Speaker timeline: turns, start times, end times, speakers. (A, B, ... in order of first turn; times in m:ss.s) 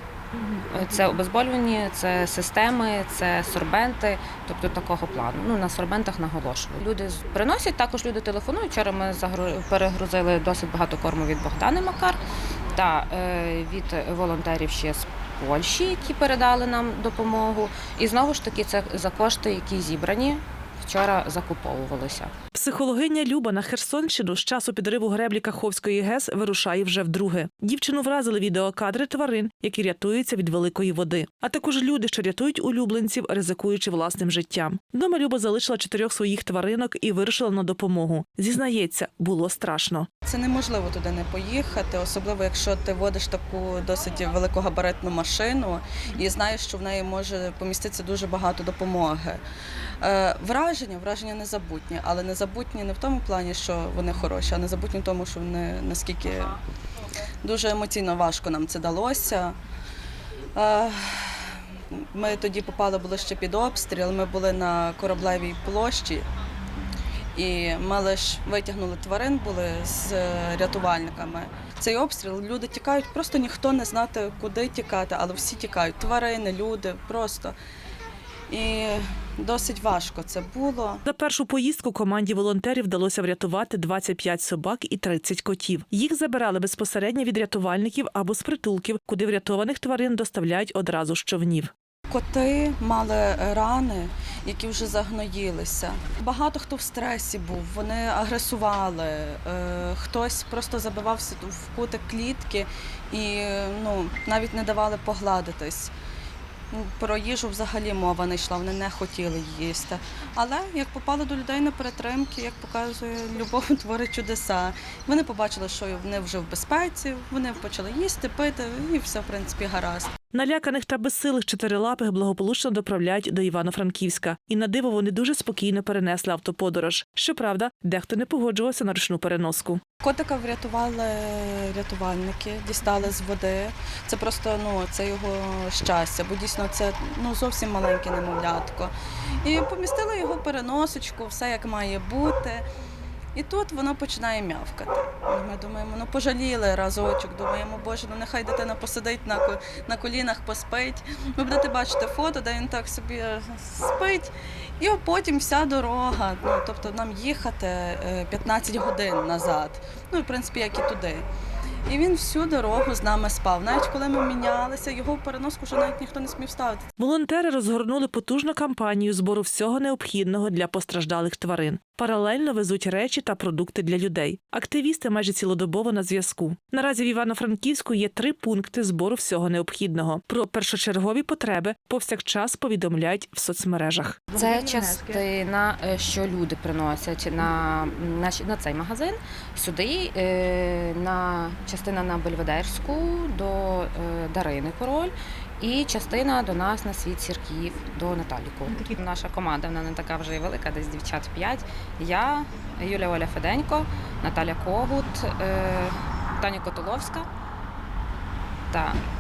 0:00.4-0:12.2 A
0:12.7-0:22.3 A
0:22.5-0:40.1 B
0:40.2-0:49.4 C
0:50.0-0:56.6 C
0:57.4-0:59.6 C
1:00.6-1:06.3 C
1:07.4-1:17.6 C
1:18.5-1:21.0 C
1:21.0-1:31.7 B
1:32.1-1:45.9 C
1:46.7-2:00.2 C
2:00.3-2:09.8 B
2:10.0-2:22.7 C
2:23.4-2:41.3 C
2:41.9-2:46.9 C
2:47.0-3:04.3 B
3:04.3-3:27.3 A
3:28.7-3:29.0 A